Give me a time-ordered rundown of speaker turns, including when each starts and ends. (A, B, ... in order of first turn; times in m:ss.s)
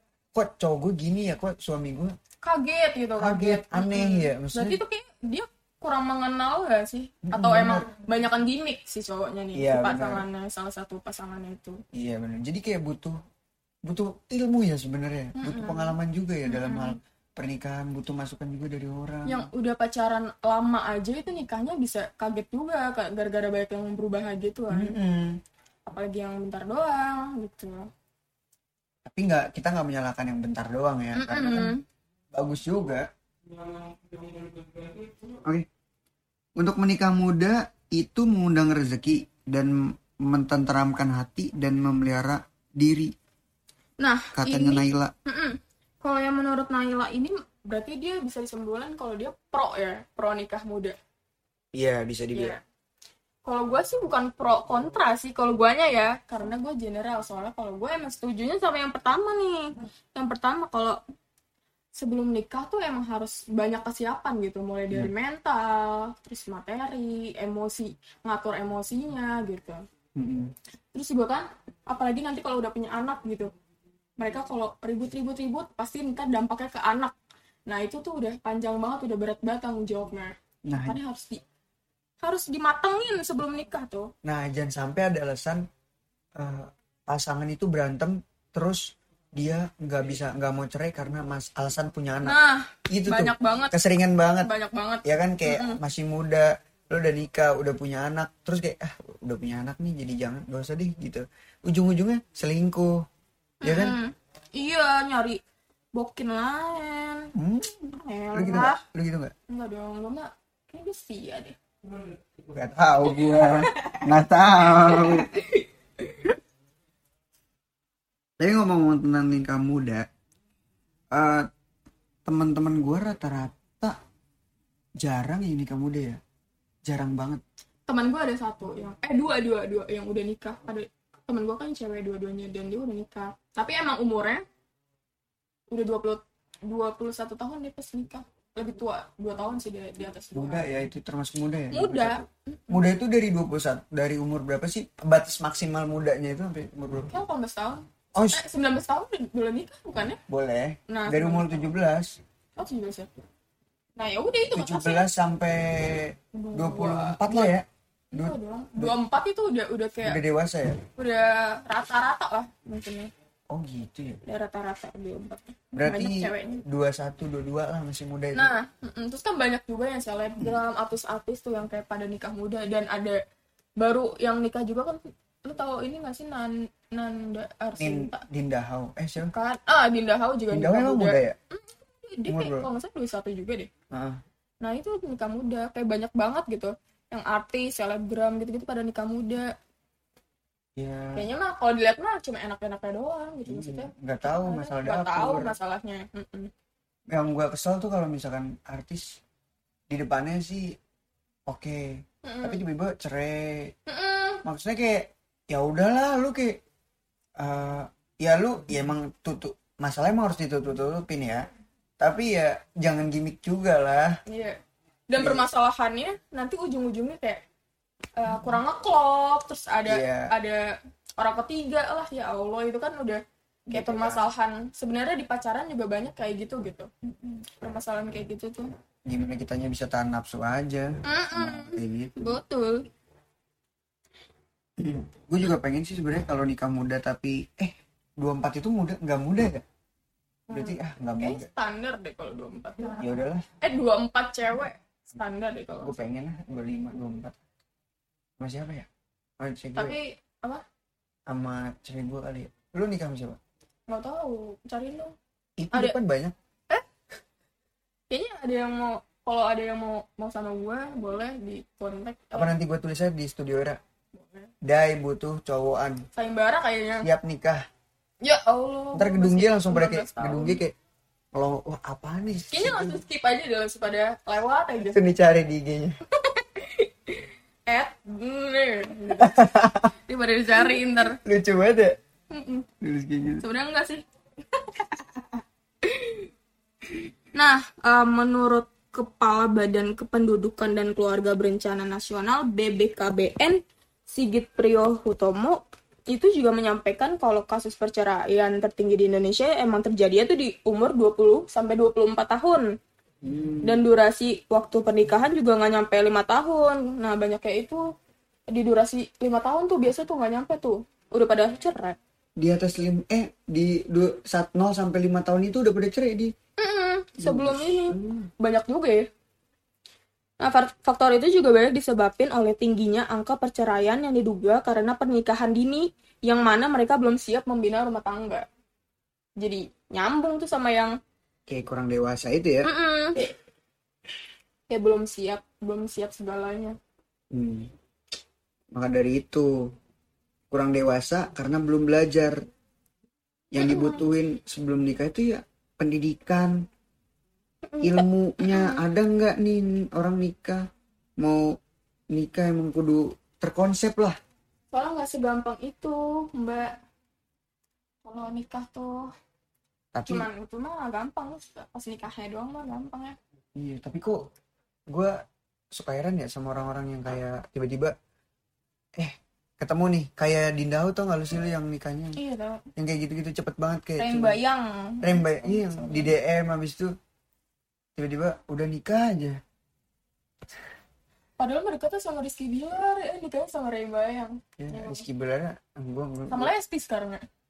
0:00.3-0:02.2 A
0:02.4-0:11.8 B
0:03.2-0:04.8 A
0:07.3-0:07.9 A
0:09.6-0:10.2 A
0:11.9-0:13.2 A
0:13.8-0:19.5 A
0:15.4-0:16.0 B
0:16.5-0:17.0 B
0:19.3-0:24.9 B
0:24.7-0:25.4 A
0:25.9-0:27.9 B
0:29.0-0:31.7 A
0:31.1-0:31.8 B
0:32.3-0:33.1 A
0:36.6-0:43.1 A
0:44.0-0:51.0 B
0:44.3-0:45.1 A
0:51.7-0:52.6 A
0:52.3-0:52.6 B
0:53.4-1:01.0 B
1:02.0-1:09.8 B
1:10.2-1:10.5 A
1:10.9-1:13.5 B
1:14.2-1:17.1 B
1:17.7-1:21.4 B
1:20.7-1:21.0 A
1:22.2-1:24.1 B
1:24.2-1:25.7 A
1:26.4-1:32.4 A
1:32.2-1:33.7 B
1:32.9-1:34.5 A
1:34.4-1:35.8 B
1:35.0-1:43.0 A
1:43.6-1:45.4 B
1:43.6-1:44.0 A
1:46.0-1:47.3 B
1:47.4-1:49.3 A
1:47.9-1:48.8 B
1:49.5-1:51.6 B
1:52.5-1:55.3 A
1:53.1-1:54.1 B
1:54.7-1:56.4 B
1:58.4-2:00.1 A
2:01.1-2:01.5 A
2:02.2-2:04.0 A
2:05.0-2:06.2 A
2:06.9-2:07.4 A
2:07.9-2:14.4 B
2:15.7-2:20.6 B
2:20.3-2:27.1 A
2:21.7-2:22.8 B
2:27.1-2:30.2 B
2:28.2-2:28.4 A
2:30.3-2:32.2 A
2:30.9-2:31.7 B
2:32.6-2:33.1 B
2:34.0-2:35.1 B
2:34.5-2:39.0 A
2:36.3-2:37.6 B
2:38.1-2:40.2 B
2:40.0-2:40.8 A
2:41.0-2:43.1 B
2:43.5-2:44.2 A
2:44.2-2:46.6 B
2:45.7-2:48.5 A
2:48.3-2:53.2 B
2:53.8-2:58.2 B
2:57.8-2:59.3 A
2:59.3-3:03.7 B
3:00.5-3:01.4 A
3:02.3-3:02.7 A
3:03.9-3:04.2 A
3:04.6-3:09.5 B
3:10.8-3:11.3 A
3:11.2-3:16.5 B
3:13.5-3:15.5 A
3:17.1-3:19.2 A
3:19.9-3:20.8 A
3:21.5-3:23.8 A
3:22.2-3:22.6 B
3:23.9-3:24.4 B
3:24.4-3:26.6 A
3:27.4-3:31.5 A
3:32.0-3:34.2 A
3:34.3-3:34.6 B
3:35.1-3:37.4 B
3:35.2-3:35.4 A
3:38.2-3:48.7 B
3:39.9-3:40.3 A
3:43.7-3:44.3 A
3:49.1-3:52.3 A
3:51.0-3:52.8 B
3:54.8-3:59.6 A
4:00.5-4:03.0 B
4:00.5-4:01.5 A
4:03.0-4:03.4 A
4:03.6-4:06.0 B
4:05.8-4:07.4 A
4:08.4-4:08.9 A
4:09.4-4:10.0 A
4:09.8-4:10.6 B
4:11.3-4:13.4 A
4:13.9-4:15.2 B
4:15.6-4:16.4 A
4:18.1-4:22.5 B
4:22.3-4:23.8 A
4:24.2-4:24.5 B
4:24.6-4:26.1 A
4:26.2-4:27.1 B
4:27.0-4:27.6 A
4:28.2-4:30.6 B
4:29.0-4:30.7 A
4:31.3-4:33.0 A
4:32.5-4:35.0 B
4:34.9-4:36.0 A
4:36.2-4:39.4 B
4:39.2-4:39.9 A
4:40.1-4:41.2 B
4:41.2-4:42.0 A
4:42.3-4:42.7 B
4:42.8-4:43.4 A
4:43.4-4:45.2 B
4:45.8-4:46.3 B
4:47.4-5:02.7 B
5:03.2-5:03.8 A
5:03.6-5:07.9 B
5:08.5-5:12.0 B
5:12.4-5:16.3 A
5:16.6-5:19.1 B
5:17.2-5:18.3 A
5:20.4-5:28.5 B
5:29.4-5:31.0 B
5:31.5-5:32.7 A
5:32.6-5:33.3 B
5:34.7-5:36.8 B
5:37.3-5:37.7 A
5:38.7-5:39.7 A
5:40.5-5:42.4 A
5:43.5-5:46.6 A
5:43.6-5:44.0 B
5:47.7-5:48.8 B
5:47.8-5:50.7 A
5:51.2-5:51.6 A
5:52.1-5:54.2 A
5:54.7-5:56.8 B
5:58.0-5:59.1 B
5:59.9-6:00.3 A
6:00.1-6:03.2 B
6:03.6-6:04.2 A
6:04.9-6:05.2 A
6:05.7-6:08.0 A
6:09.0-6:12.2 A
6:12.2-6:12.6 B
6:12.8-6:14.4 A
6:14.0-6:16.1 B
6:15.0-6:16.9 A
6:18.0-6:19.4 A
6:21.4-6:25.0 B
6:24.6-6:26.5 A
6:26.3-6:27.2 B